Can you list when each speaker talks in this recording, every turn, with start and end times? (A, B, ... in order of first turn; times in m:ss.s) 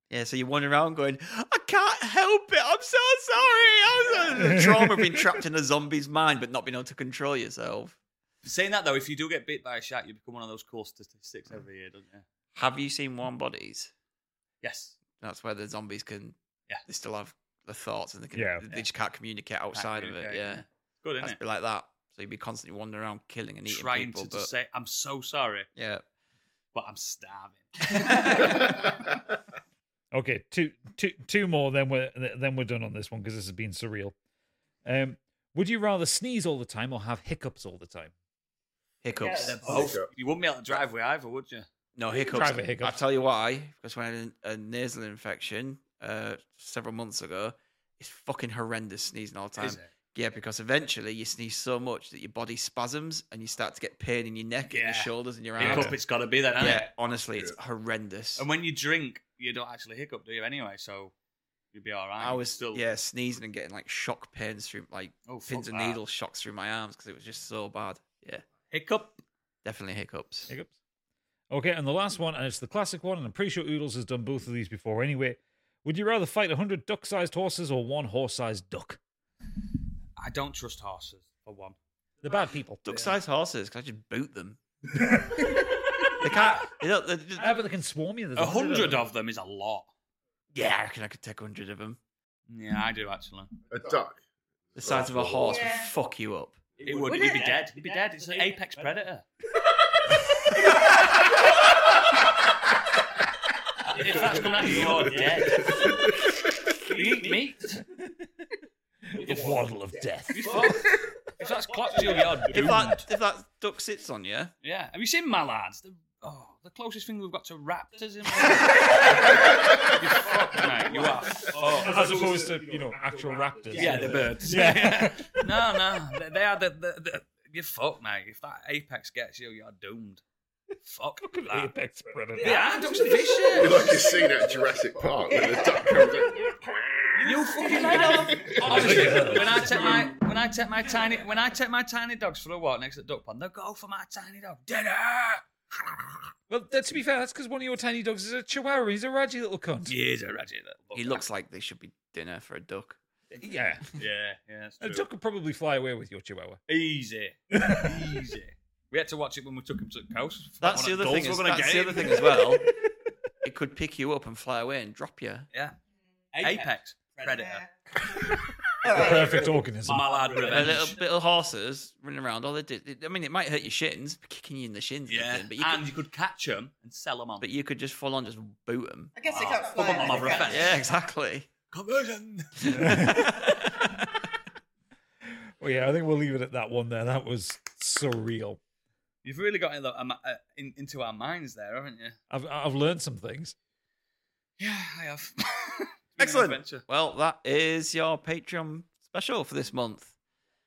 0:00.1-0:08.0 A
0:04.4-0:05.2 B
0:08.4-0:12.2 C
0:12.5-0:13.9 A
0:14.6-0:15.0 C
0:15.2-0:20.6 A
0:18.3-0:18.7 B
0:19.7-0:21.4 C
0:21.2-0:24.5 A
0:23.6-0:25.7 C
0:25.8-0:26.0 A
0:26.7-0:29.0 C
0:27.9-0:28.6 A
0:30.1-0:34.1 B
0:34.8-0:38.1 B
0:39.0-0:39.9 A
0:39.2-0:39.6 D
0:39.4-0:41.7 C
0:39.6-0:40.1 E
0:42.0-0:56.0 A
0:42.3-0:43.0 B
0:49.6-0:49.9 C
0:54.7-0:56.9 C
0:55.6-0:55.9 B
0:56.6-0:58.4 A
0:58.4-1:01.1 C
1:01.7-1:02.8 C
1:02.2-1:08.4 A
1:05.3-1:06.0 C
1:08.7-1:09.2 C
1:09.6-1:10.5 A
1:11.5-1:19.0 B
1:20.2-1:21.8 C
1:22.2-1:22.8 B
1:22.8-1:24.6 A
1:26.2-1:27.5 A
1:27.4-1:29.0 B
1:28.4-1:29.9 C
1:30.5-1:32.0 A
1:32.5-1:33.5 C
1:33.7-1:34.2 E
1:34.7-1:35.6 E
1:34.8-1:36.6 A
1:35.4-1:35.9 D
1:36.8-1:39.2 C
1:37.0-1:37.6 D
1:43.9-1:46.0 C
1:44.2-1:46.1 E
1:46.8-1:47.8 C
1:49.1-1:51.1 B
1:49.2-1:49.6 C
1:50.3-1:53.1 C
1:52.5-1:54.5 A
1:54.6-2:02.4 C
2:01.4-2:05.4 B
2:03.7-2:10.2 C
2:10.8-2:11.7 C
2:11.2-2:12.8 B
2:12.4-2:14.0 C
2:12.4-2:13.8 D
2:13.5-2:20.0 E
2:15.3-2:15.9 D
2:17.2-2:18.5 D
2:17.2-2:25.4 C
2:18.6-2:19.9 B
2:26.5-2:29.9 B
2:29.9-2:31.2 C
2:30.9-2:33.0 A
2:33.3-2:35.0 C
2:33.4-2:34.0 B
2:34.8-2:36.6 B
2:36.7-2:42.4 C
2:37.5-2:38.0 B
2:40.6-2:42.7 A
2:43.4-2:45.5 A
2:46.3-2:47.7 C
2:47.2-2:47.7 D
2:48.1-2:50.8 B
2:48.8-2:49.4 D
2:49.8-2:51.0 C
2:50.5-2:55.8 A
2:55.1-2:57.5 C
2:57.4-2:59.1 A
2:59.2-3:00.7 D
2:59.3-3:00.8 C
3:00.4-3:01.5 A
3:01.7-3:02.9 C
3:02.6-3:03.9 A
3:02.7-3:03.6 B
3:05.6-3:08.6 B
3:09.2-3:12.2 C
3:12.3-3:13.5 B
3:14.6-3:16.8 C
3:16.2-3:20.1 A